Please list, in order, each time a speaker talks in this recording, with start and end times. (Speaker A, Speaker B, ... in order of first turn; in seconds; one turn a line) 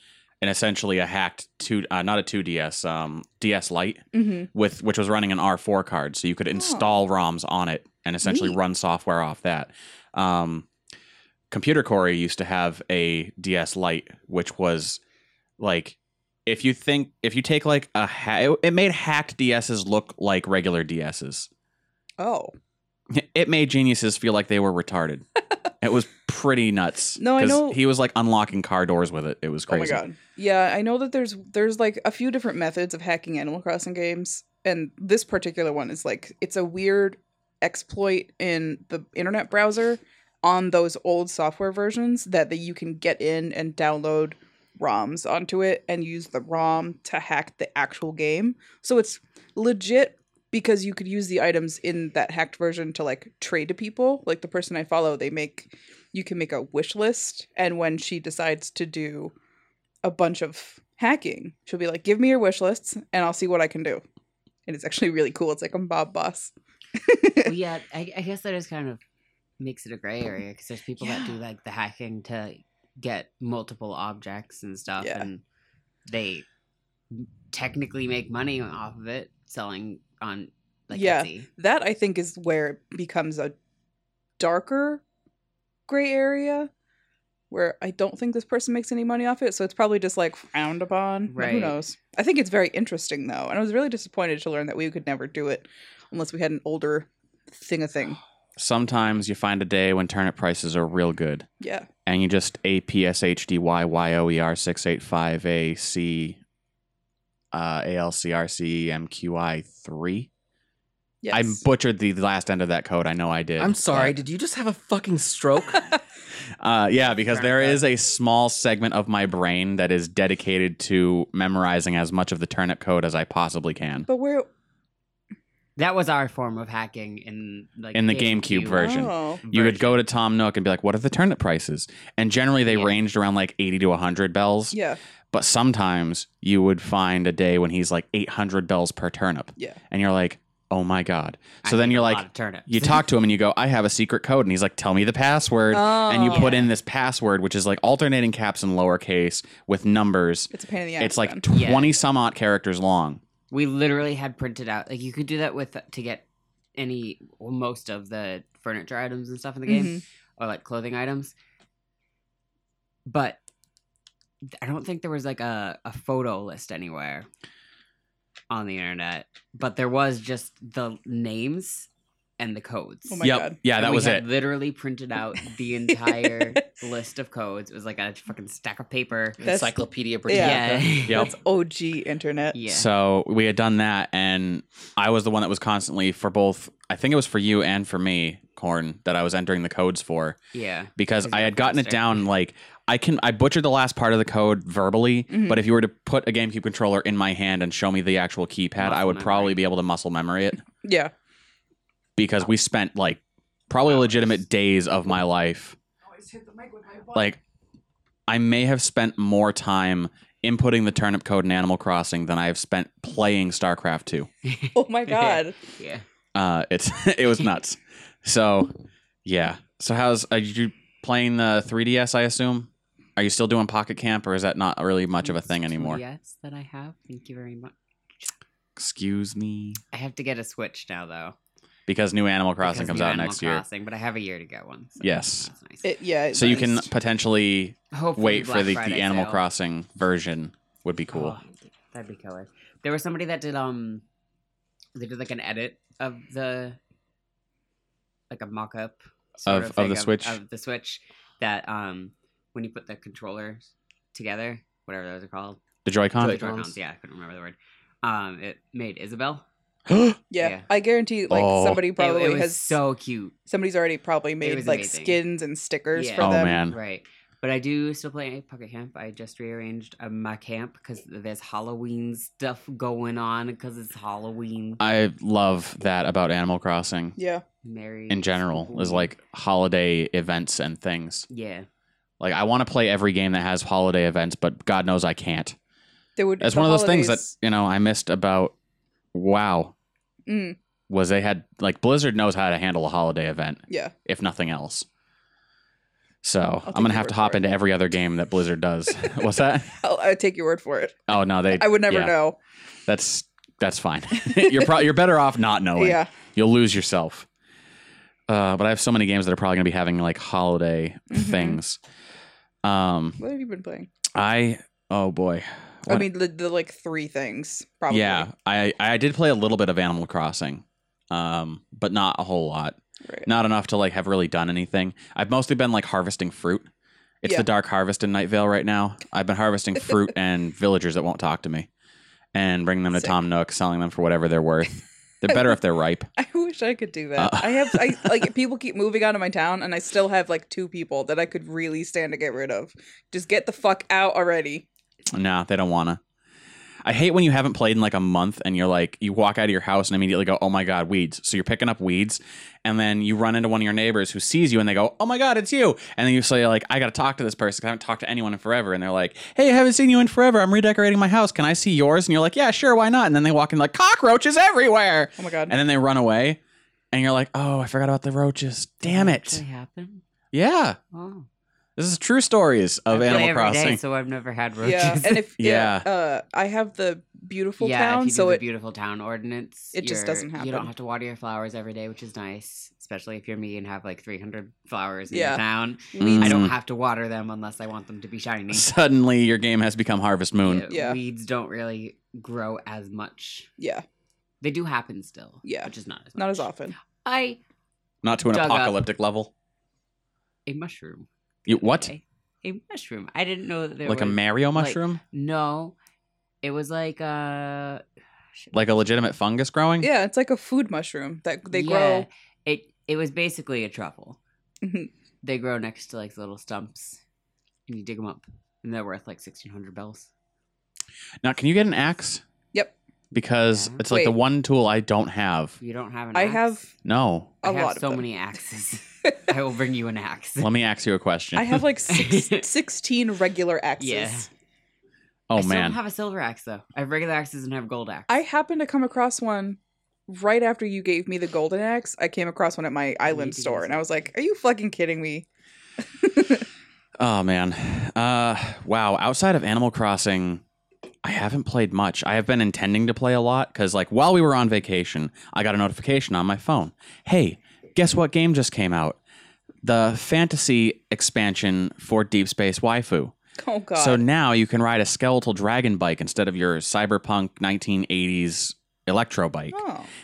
Speaker A: 0.4-10.7
Speaker B: 4.1-4.5
Speaker B: 6.5-6.9
Speaker B: 8.2-8.6
Speaker A: 11.5-15.0
Speaker A: 15.6-21.5
Speaker B: 22.2-22.5
Speaker A: 23.1-25.2
Speaker A: 25.8-30.0
Speaker B: 27.2-27.8
Speaker B: 29.7-59.3
Speaker B: 60.0-64.0
Speaker B: 64.7-67.5
Speaker C: 67.4-69.0
Speaker C: 69.6-75.4
Speaker B: 71.0-71.3
Speaker B: 75.0-75.3
Speaker C: 76.1-76.4
Speaker C: 77.1-81.5
Speaker B: 80.9-83.5
Speaker B: 84.4-85.0
Speaker B: 85.9-86.7
Speaker B: 87.5-98.2
Speaker C: 91.3-91.8
Speaker A: 98.6-101.5
Speaker B: 101.6-101.9
Speaker A: 102.0-106.4
Speaker A: 107.5-110.3
Speaker B: 111.2-111.6
Speaker A: 111.3-114.2
Speaker D: 113.6-115.9
Speaker A: 116.6-124.1
Speaker C: 117.3-117.8
Speaker B: 124.1-124.5
Speaker C: 125.8-130.0
Speaker A: 127.9-134.8
Speaker B: 128.7-129.4
Speaker C: 132.7-132.9
Speaker B: 134.7-135.0
Speaker A: 135.3-153.2
Speaker C: 141.6-143.0
Speaker B: 145.7-146.7
Speaker C: 146.3-146.7
Speaker B: 150.5-151.4
Speaker C: 151.5-152.0
Speaker C: 153.5-161.3
Speaker B: 159.7-160.0
Speaker C: 163.1-163.4
Speaker C: 164.4-167.2
Speaker C: 168.5-171.9
Speaker C: 172.4-173.2
Speaker B: 173.1-173.6
Speaker A: 173.2-174.2
Speaker C: 173.7-179.4
Speaker B: 176.1-176.6
Speaker D: 179.4-181.0
Speaker B: 179.4-179.7
Speaker B: 180.3-180.6
Speaker C: 180.3-181.3
Speaker A: 181.1-181.3
Speaker B: 181.1-182.6
Speaker C: 182.5-182.9
Speaker A: 182.7-190.4
Speaker C: 190.5-192.2
Speaker A: 191.0-200.6
Speaker B: 195.3-195.6
Speaker C: 198.8-199.6
Speaker B: 200.8-201.1
Speaker A: 202.2-205.8
Speaker B: 206.2-207.2
Speaker A: 207.1-207.4
Speaker A: 208.3-214.3
Speaker C: 214.4-216.0
Speaker B: 214.7-215.6
Speaker A: 216.3-218.7
Speaker A: 219.2-226.0
Speaker C: 225.2-228.3
Speaker A: 228.8-229.8
Speaker C: 229.9-231.3
Speaker A: 231.9-233.6
Speaker C: 232.6-235.9
Speaker A: 235.0-235.5
Speaker B: 235.8-236.9
Speaker A: 236.3-241.4
Speaker C: 237.9-239.4
Speaker C: 241.1-244.0
Speaker C: 244.9-246.8
Speaker C: 248.3-255.6
Speaker A: 249.4-250.4
Speaker A: 255.8-256.4
Speaker C: 256.2-259.4
Speaker D: 256.2-256.8
Speaker A: 259.9-260.2
Speaker B: 260.3-262.8
Speaker C: 260.4-260.6
Speaker A: 261.3-261.9
Speaker C: 261.9-263.3
Speaker B: 263.5-266.6
Speaker C: 264.4-265.2
Speaker C: 265.9-274.8
Speaker A: 266.2-266.8
Speaker A: 274.8-277.1
Speaker B: 277.2-277.4
Speaker C: 277.6-279.1
Speaker A: 278.1-281.2
Speaker C: 281.3-281.7
Speaker A: 282.2-285.6
Speaker B: 286.1-287.3
Speaker A: 286.4-288.5
Speaker A: 289.1-289.7
Speaker B: 290.3-290.6
Speaker A: 290.9-294.9
Speaker A: 296.2-299.8
Speaker B: 296.6-297.5
Speaker B: 299.7-302.4
Speaker A: 301.1-302.1
Speaker A: 302.9-307.2
Speaker B: 304.2-304.8
Speaker B: 305.8-306.1
Speaker A: 308.3-311.8
Speaker B: 311.1-311.6
Speaker A: 312.6-313.2
Speaker B: 313.2-313.9
Speaker A: 314.1-316.1
Speaker B: 315.9-318.3
Speaker A: 317.9-326.7
Speaker A: 327.2-331.7
Speaker A: 332.3-336.1
Speaker B: 336.2-344.6
Speaker A: 337.2-338.1
Speaker A: 345.1-346.0
Speaker A: 346.8-366.4
Speaker B: 365.2-365.5
Speaker A: 366.9-369.4
Speaker C: 368.8-370.0
Speaker A: 370.3-370.8
Speaker C: 370.9-371.3
Speaker A: 371.8-373.8
Speaker C: 372.9-375.3
Speaker B: 374.6-378.4
Speaker A: 375.4-375.9
Speaker C: 377.6-388.7
Speaker B: 379.7-380.7
Speaker B: 385.1-385.4
Speaker B: 385.9-386.4
Speaker A: 386.0-386.5
Speaker A: 388.5-390.7
Speaker C: 390.4-393.5
Speaker B: 390.7-391.0
Speaker B: 393.6-393.8
Speaker C: 394.4-396.5
Speaker B: 395.4-396.7
Speaker C: 397.0-397.4
Speaker A: 398.0-399.3
Speaker C: 398.3-398.8
Speaker C: 400.4-405.8
Speaker A: 401.5-401.9
Speaker A: 403.8-405.0
Speaker C: 406.4-407.8
Speaker A: 408.5-409.9
Speaker B: 409.8-412.1
Speaker C: 411.5-414.2
Speaker B: 414.6-414.9
Speaker C: 415.2-417.0
Speaker C: 417.7-420.1
Speaker A: 421.2-422.2
Speaker A: 423.1-425.6
Speaker C: 423.5-423.8
Speaker B: 423.9-424.1
Speaker C: 425.6-426.5
Speaker B: 426.1-426.7
Speaker A: 426.8-427.4
Speaker B: 427.4-428.0
Speaker C: 427.4-430.5
Speaker A: 430.4-431.6
Speaker B: 431.3-434.3
Speaker C: 431.9-432.4
Speaker C: 433.8-434.3
Speaker A: 435.3-435.8
Speaker C: 435.4-438.1
Speaker B: 438.1-445.2
Speaker C: 443.1-444.0
Speaker B: 446.0-446.4
Speaker A: 447.0-450.4
Speaker A: 451.0-459.0
Speaker A: 459.6-463.1
Speaker B: 463.4-464.0
Speaker A: 463.8-469.6
Speaker B: 469.5-469.9